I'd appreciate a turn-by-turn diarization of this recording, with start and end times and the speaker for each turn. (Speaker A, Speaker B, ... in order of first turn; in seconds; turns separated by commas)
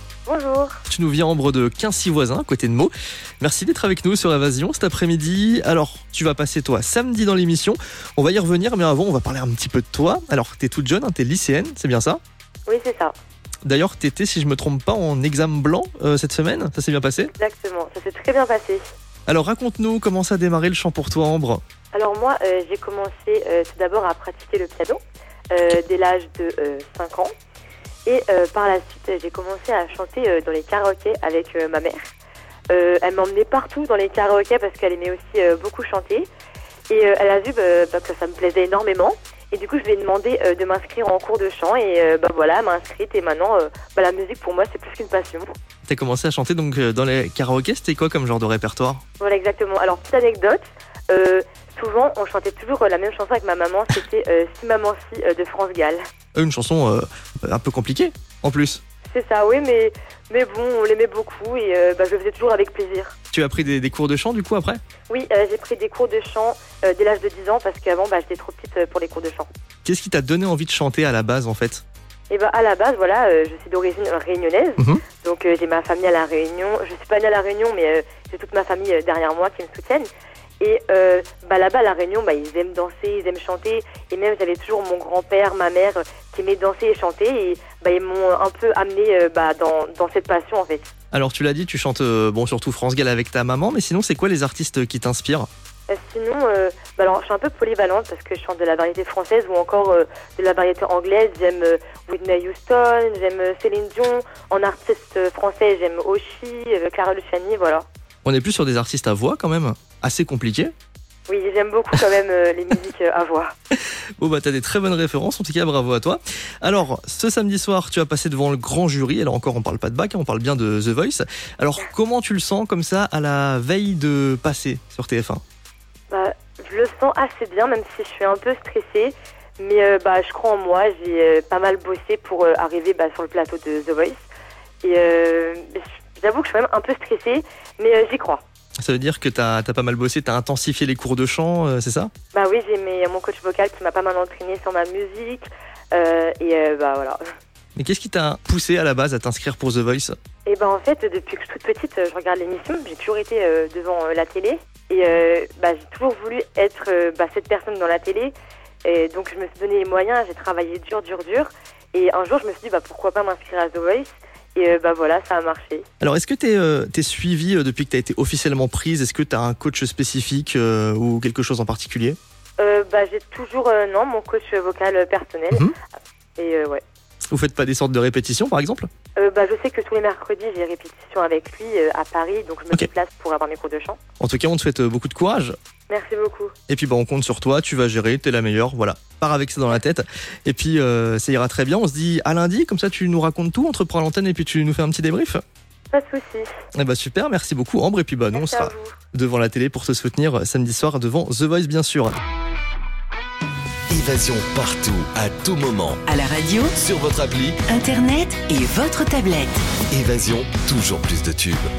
Speaker A: 0.3-0.8, Speaker B: 0.9-12.2, Speaker A: 12.7-13.1, Speaker B: 13.7-17.3, Speaker A: 17.2-18.8, Speaker B: 19.3-21.6, Speaker A: 21.9-25.0, Speaker A: 25.5-27.3, Speaker A: 28.1-32.0, Speaker A: 32.7-36.3, Speaker A: 36.9-45.5, Speaker B: 45.9-49.0, Speaker A: 49.2-56.0, Speaker B: 56.4-58.8, Speaker A: 59.1-63.1, Speaker B: 63.3-64.8, Speaker A: 65.1-69.5, Speaker B: 69.8-71.8, Speaker A: 72.3-80.1, Speaker A: 80.6-90.9, Speaker B: 91.1-95.5, Speaker A: 95.9-107.9, Speaker B: 108.2-110.7, Speaker A: 111.3-113.5, Speaker B: 113.7-125.4, Speaker A: 126.1-134.2, Speaker A: 134.8-138.4, Speaker B: 138.8-142.1, Speaker A: 142.3-147.2, Speaker B: 147.8-150.2, Speaker A: 150.4-158.3, Speaker A: 158.8-165.9, Speaker B: 166.0-172.2, Speaker A: 172.6-175.7, Speaker A: 176.4-176.8, Speaker B: 177.3-178.9, Speaker A: 179.2-184.0, Speaker B: 184.2-185.6, Speaker A: 185.9-186.5, Speaker B: 186.7-195.4, Speaker A: 195.9-196.5, Speaker B: 196.8-202.2, Speaker A: 198.3-199.0, Speaker C: 203.9-206.0, Speaker D: 206.1-206.8, Speaker C: 206.8-207.6, Speaker D: 207.7-209.6, Speaker C: 209.9-211.7